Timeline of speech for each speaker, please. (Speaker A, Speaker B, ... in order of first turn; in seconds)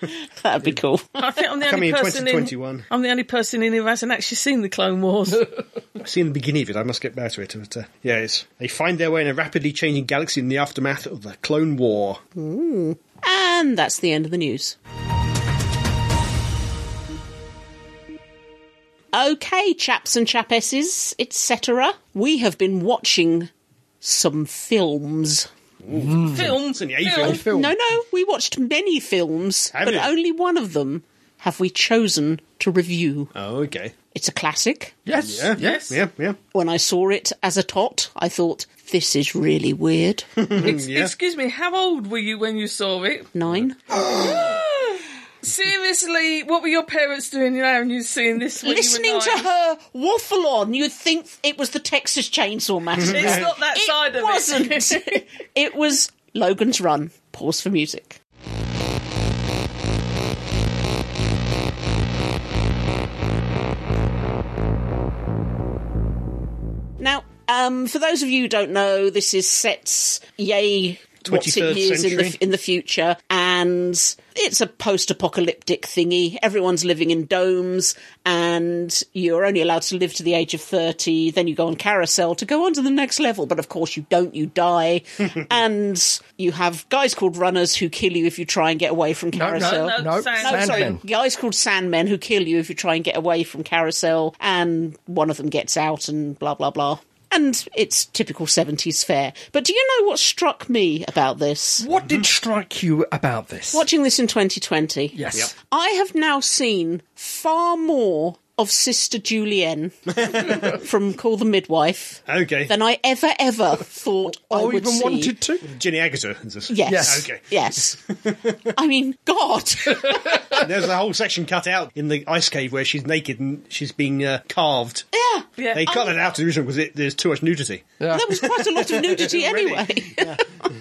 Speaker A: 0.2-1.3, 12.3-14.8, 19.1-23.5, 24.0-25.5, 27.3-33.3, 34.1-35.0, 36.5-40.3, 43.3-43.9, 48.6-58.2, 67.0-101.9, 103.7-115.3, 116.7-118.0, 118.7-120.6, 125.1-126.1, 128.1-130.4
Speaker B: 1.2-5.5, 26.3-27.4, 35.6-36.0, 40.6-43.3, 44.1-49.5, 53.0-55.2, 89.5-90.9, 125.6-126.1
Speaker C: 1.6-2.9, 6.0-12.2, 25.8-27.4, 29.7-30.1, 33.3-33.9, 35.2-36.4, 40.4-41.1, 53.0-53.5, 71.2-72.4, 110.1-110.8, 112.3-112.7, 115.7-118.6, 120.5-125.1, 125.7-128.0, 128.6-130.4
Speaker D: 25.9-26.6, 27.1-27.8, 35.1-35.9, 89.3-91.0, 101.8-103.8, 105.1-105.5, 114.3-115.7, 116.9-117.3, 120.0-120.5, 128.0-128.5